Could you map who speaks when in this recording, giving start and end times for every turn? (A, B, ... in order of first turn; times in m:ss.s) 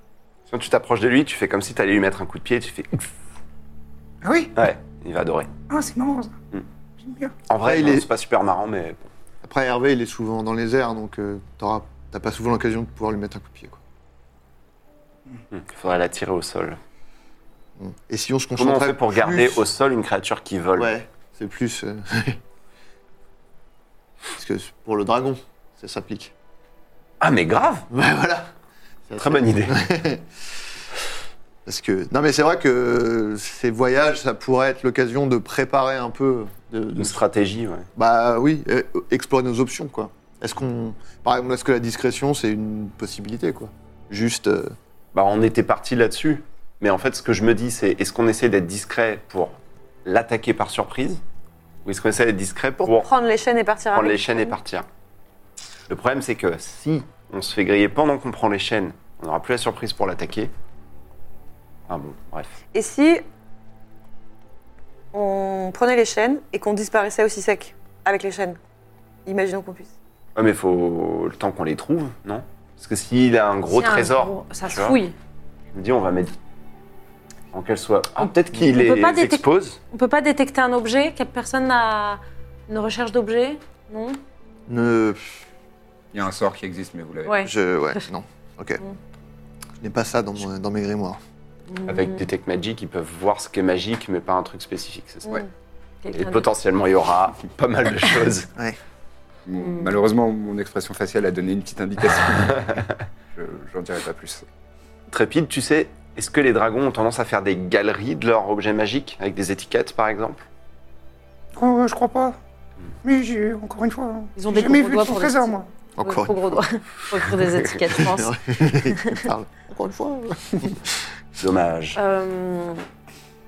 0:00.5-0:03.1 A
0:04.2-0:04.5 B
0:04.6-0:05.5 A
0:05.7-0:06.3 B
0:07.0-0:07.3 B
0:07.5-0:09.1 A
0:07.6-0:08.1 C
0:09.4-0:13.8 C
0:15.5-0:16.8 A
0:17.8-0:19.7 C
0:18.6-0:20.9 A
0:20.8-0:22.4 C
0:24.3-0:26.3 C
0:27.2-0:27.9 A
0:27.9-0:28.5 C
0:29.1-0:30.2 C
0:29.2-0:29.8 A
0:31.6-0:37.2 C
0:36.9-0:37.9 A
0:37.9-0:44.7 C
0:45.1-0:51.2 A
0:51.8-0:53.1 A
0:52.8-0:54.5 D
0:53.9-0:54.9 A
0:55.9-1:00.5 A
1:01.9-1:02.6 A
1:02.7-1:03.2 D
1:05.1-1:08.6 D
1:09.2-1:09.9 D
1:10.3-1:15.0 A
1:13.7-1:15.1 E
1:15.7-1:16.3 A
1:17.5-1:19.8 A
1:18.5-1:24.2 E
1:24.7-1:25.4 C
1:26.1-1:27.4 F
1:27.2-1:28.0 E
1:27.4-1:28.8 C
1:29.8-1:31.2 C
1:31.7-1:32.2 E
1:31.9-1:35.4 A
1:36.0-1:36.4 E
1:36.1-1:38.5 A
1:39.4-1:44.4 F
1:39.6-1:39.9 E
1:45.1-1:50.4 A
1:51.6-1:52.4 B
1:53.0-1:55.7 B
1:54.4-1:58.3 E
1:55.9-1:56.6 C
1:57.8-2:01.0 C
1:59.0-1:59.2 E
2:01.4-2:02.0 A
2:02.0-2:02.8 E